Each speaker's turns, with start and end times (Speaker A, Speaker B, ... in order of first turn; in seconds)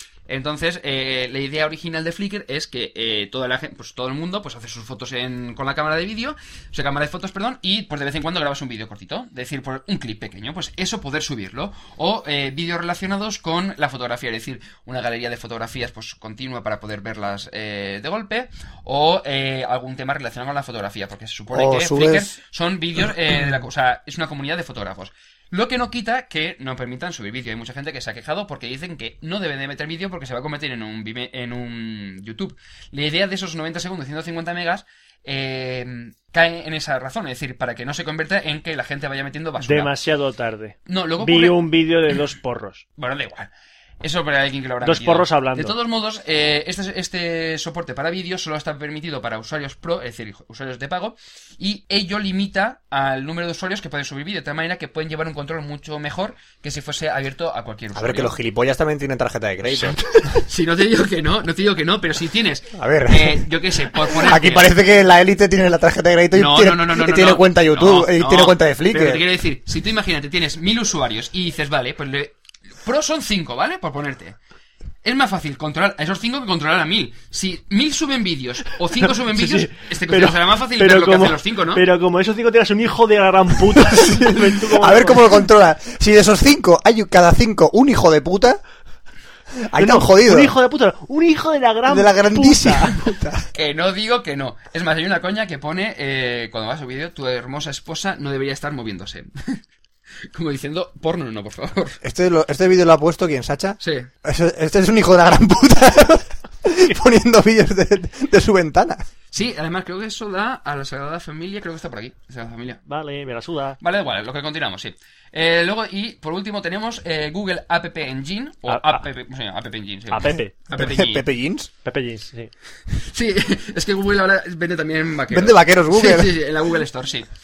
Speaker A: 0.3-39.9, 40.9-41.6, 43.0-43.5, 44.0-58.3, 59.7-64.7, 66.3-74.4, 75.0-81.8, 93.5-99.6, 100.3-102.0, 103.8-104.1, 109.3-112.8, 113.8-121.2, 123.0-127.3
Speaker B: 21.5-22.3, 57.9-60.0, 62.8-63.5, 64.1-69.2, 83.9-88.6, 89.7-90.5, 91.9-93.5, 102.0-109.0, 120.7-121.7, 125.3-126.4
Speaker C: 39.6-42.8, 44.8-45.7, 79.0-85.3, 89.8-93.1, 112.8-113.8, 118.7-119.0, 120.1-120.5, 121.8-122.5